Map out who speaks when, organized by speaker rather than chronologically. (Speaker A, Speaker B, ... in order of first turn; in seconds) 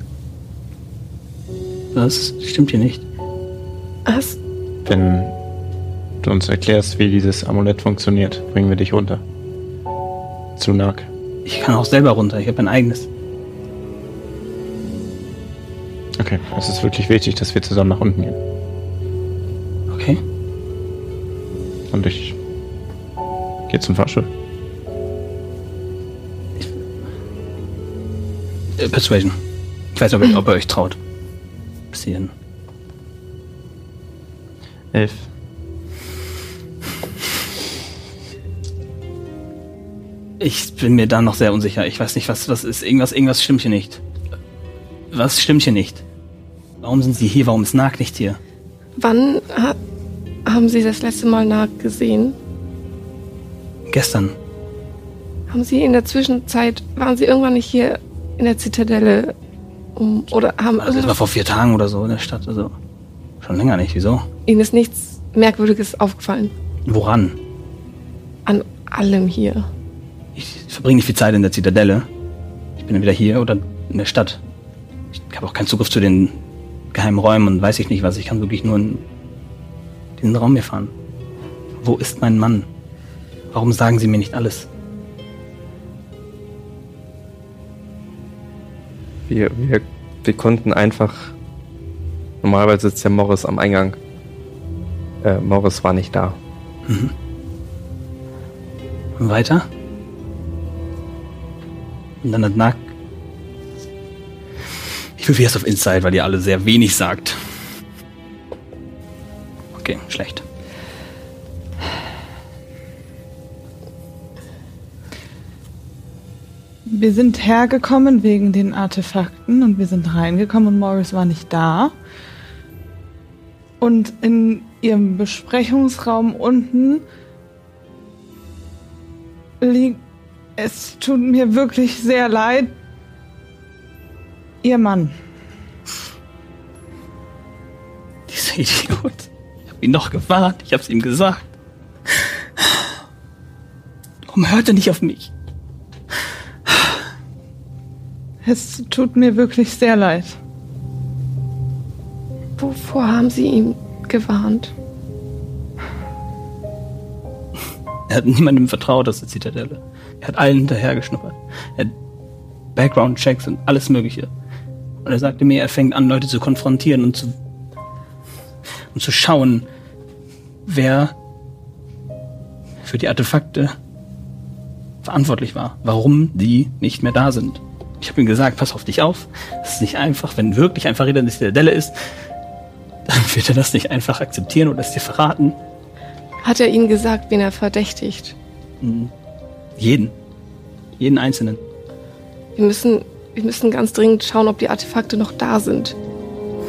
Speaker A: 1.9-3.0, 11.4-13.1, 19.9-20.2, 28.8-29.4, 29.9-31.0, 31.9-32.3, 40.4-44.0, 45.1-46.0, 46.8-48.4, 53.9-54.4, 60.8-62.7, 63.4-64.3, 66.8-67.4, 70.3-72.1, 72.8-74.4, 75.1-76.4, 76.9-79.0, 80.2-80.9, 81.8-82.7, 83.5-84.7, 96.8-97.1, 99.2-99.7, 102.2-102.9, 105.2-107.4, 109.7-110.4, 138.3-141.5, 142.1-142.8, 144.3-145.3, 158.1-161.9, 162.8-164.3, 165.0-167.3, 168.9-169.7, 170.7-171.1, 172.8-173.7, 175.0-181.9, 183.1-185.6, 188.8-189.1, 189.8-190.1, 191.0-191.6
Speaker B: 4.0-4.4, 49.0-49.8, 50.5-52.4, 55.5-59.3, 60.0-61.2, 64.5-66.5, 68.5-69.7, 152.6-154.7, 186.4-188.3, 192.6-195.9
Speaker C: 4.8-5.3, 6.2-9.2, 10.6-11.1, 16.2-18.4, 21.9-22.4, 23.7-24.3, 34.9-35.3
Speaker D: 89.3-91.3, 92.4-94.0, 95.2-96.4
Speaker E: 116.9-121.9, 123.8-127.0, 129.6-130.0, 130.6-132.7, 134.6-135.1, 148.4-150.3